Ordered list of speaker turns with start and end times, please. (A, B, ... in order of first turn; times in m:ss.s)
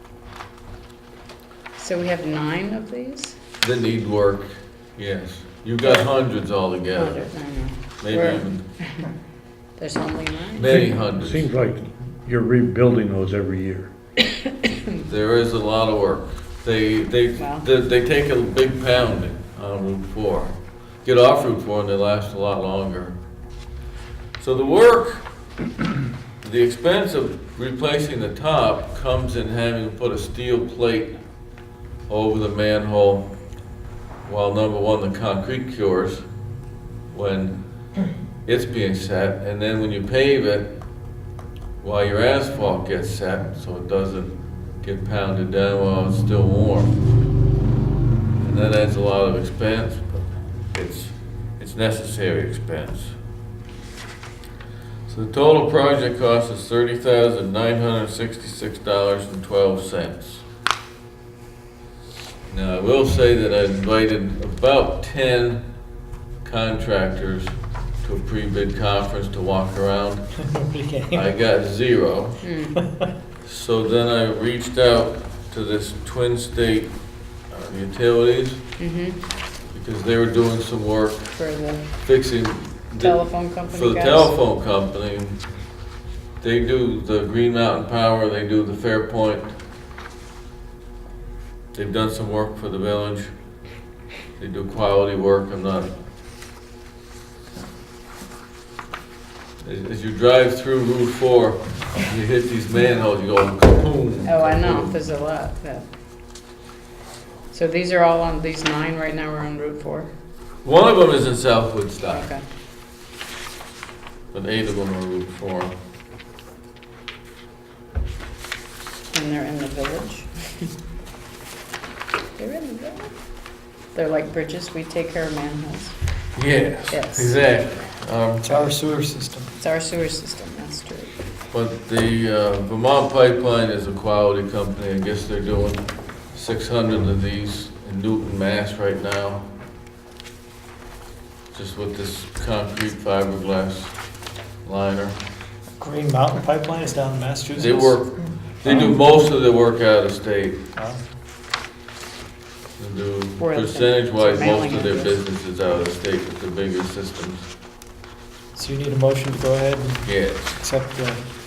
0:01.8-0:03.4 A
0:03.6-0:07.2 B
0:06.9-0:09.0 A
0:08.0-0:08.6 B
0:09.8-0:10.8 A
0:10.6-0:11.5 B
0:11.2-0:13.9 C
0:15.0-0:23.2 B
0:17.4-0:17.6 A
0:24.4-0:25.2 B
0:26.4-0:31.1 B
0:32.1-0:33.3 B
0:34.2-0:36.2 B
0:37.1-0:37.6 B
0:38.5-0:40.7 B
0:41.8-0:47.0 B
0:48.4-0:50.1 B
0:50.7-0:53.2 B
0:55.1-1:00.4 B
1:02.5-1:05.6 B
1:06.4-1:10.3 B
1:10.4-1:11.2 D
1:11.1-1:12.4 B
1:12.4-1:12.8 A
1:13.4-1:16.9 B
1:17.5-1:18.6 B
1:18.8-1:19.2 A
1:19.7-1:21.4 B
1:21.3-1:21.8 A
1:22.0-1:25.4 B
1:23.0-1:24.3 A
1:26.4-1:29.5 B
1:31.7-1:33.3 B
1:34.4-1:35.9 B
1:39.6-1:44.9 B
1:44.3-1:45.8 A
1:47.5-1:50.1 A
1:50.6-1:52.3 B
1:52.1-1:52.4 A
1:54.3-1:55.7 B
1:59.1-2:00.7 A
2:02.4-2:03.1 A
2:03.9-2:06.0 A
2:06.4-2:08.7 B
2:06.9-2:07.3 A
2:08.4-2:09.5 D
2:09.6-2:11.1 A
2:11.5-2:19.5 B
2:21.5-2:24.0 B
2:24.6-2:25.2 B
2:25.8-2:28.0 D
2:27.6-2:30.6 B
2:30.8-2:31.0 D
2:32.8-2:37.4 B
2:33.4-2:35.2 A
2:38.6-2:41.2 D
2:40.0-2:40.5 B